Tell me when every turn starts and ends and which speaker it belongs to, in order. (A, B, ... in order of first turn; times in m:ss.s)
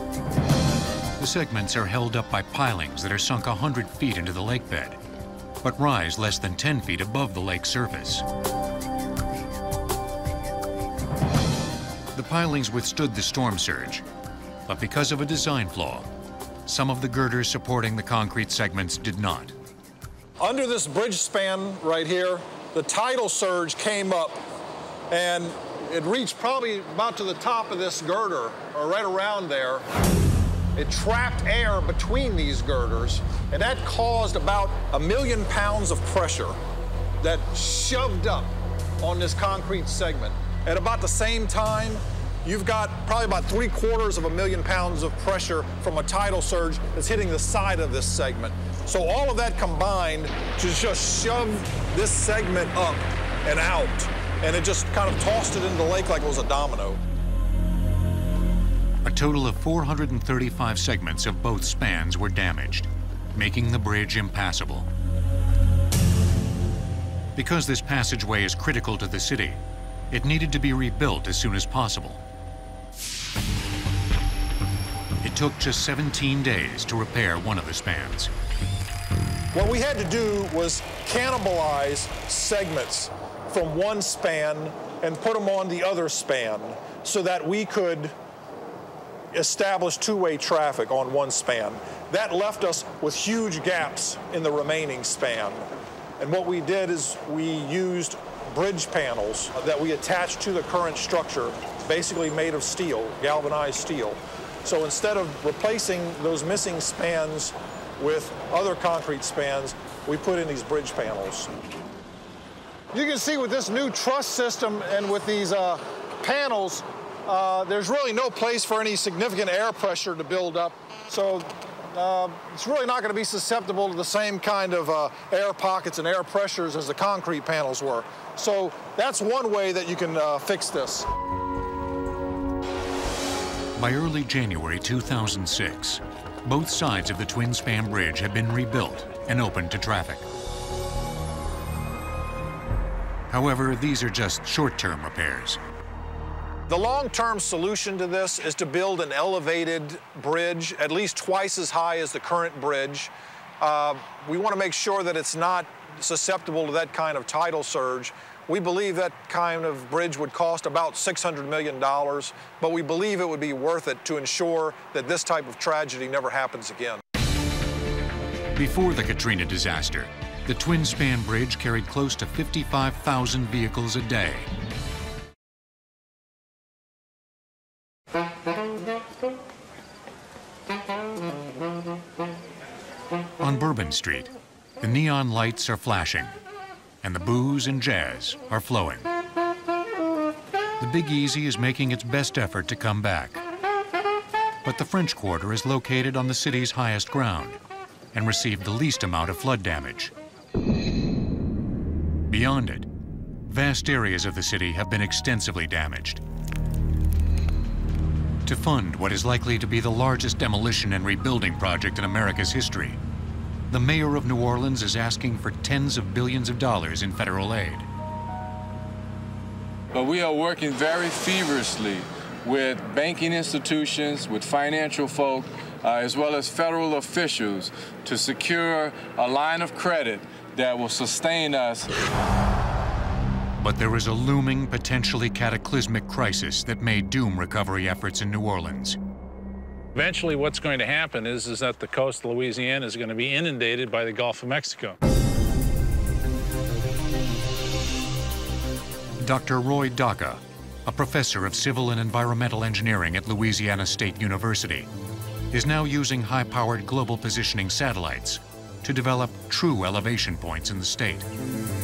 0:01.2-0:05.0 A
0:05.6-0:08.2 A
0:12.2-0:14.0 A
0:14.7-0:16.1 A
0:16.7-0:19.6 A
0:20.4-0:24.4 B
0:25.1-0:29.8 B
0:30.8-0:36.6 B
0:37.2-0:57.0 B
0:59.0-1:04.9 A
1:07.4-1:09.6 A
1:10.1-1:12.2 A
1:15.2-1:18.3 A
1:19.5-1:28.1 B
1:29.3-1:35.6 B
1:36.2-1:51.5 B
1:52.9-2:11.1 B
2:13.8-2:20.2 A
2:23.3-2:25.6 A
2:26.7-2:47.0 B
2:48.6-2:54.5 A
3:03.4-3:06.4 A
3:07.0-3:09.1 A
3:10.8-3:13.4 A
3:14.6-3:17.6 A
3:18.1-3:20.1 A
3:22.3-3:22.9 A
3:23.5-3:26.2 A
3:28.4-3:33.0 A
3:33.7-3:37.9 A
3:39.9-3:51.9 C
3:53.6-3:59.0 A
4:00.0-4:05.0 D
4:09.2-4:14.9 A
4:15.5-4:21.3 A